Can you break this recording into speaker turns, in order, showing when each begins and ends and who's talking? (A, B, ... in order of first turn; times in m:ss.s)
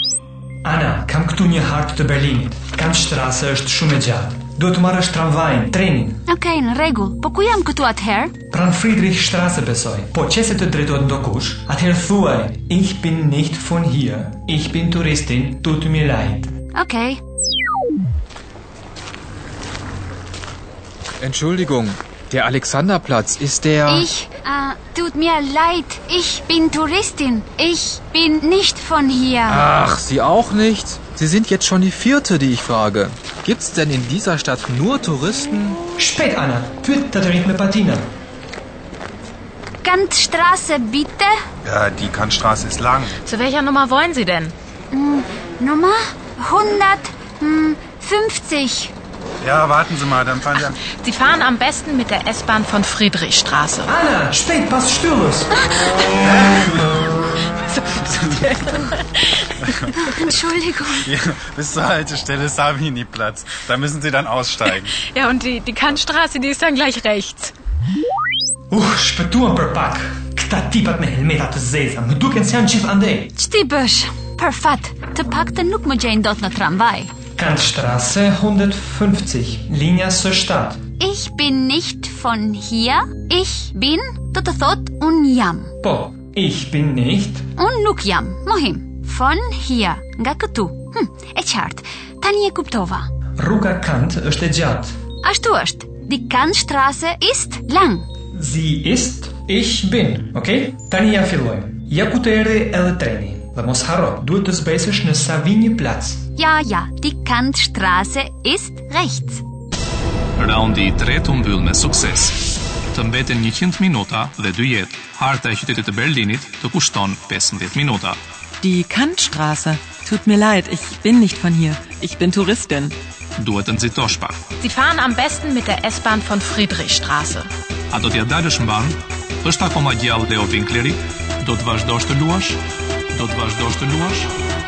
0:00.6-0:06.2 A
0:06.3-0:08.3 B
0:08.5-0:16.5 A
0:16.7-0:17.2 B
0:21.2-0:24.1 C
0:23.9-0:29.7 B
0:29.5-0:35.8 C
0:36.0-0:38.1 A
0:39.8-0:41.3 B
0:41.6-0:43.2 D
0:43.2-0:44.6 E
0:44.9-0:48.9 B
0:49.4-0:50.8 D
0:50.7-0:53.9 E
0:53.9-0:55.5 A
0:56.2-0:57.2 D
0:57.9-0:58.7 D
0:58.4-0:58.8 E
1:00.1-1:01.1 B
1:01.0-1:04.9 D
1:05.0-1:07.5 E
1:08.7-1:13.4 A
1:13.4-1:17.1 B
1:17.4-1:20.8 A
1:21.0-1:25.7 B
1:25.8-1:27.5 A
1:27.6-1:33.1 B
1:33.4-1:35.0 A
1:35.2-1:38.1 B
1:38.3-1:46.2 A
1:46.4-1:49.4 B
1:50.4-1:52.4 F
1:52.9-1:58.2 F
1:58.6-2:03.0 G
2:03.4-2:04.4 F
2:04.6-2:07.5 E
2:07.9-2:12.6 F
2:13.1-2:14.3 F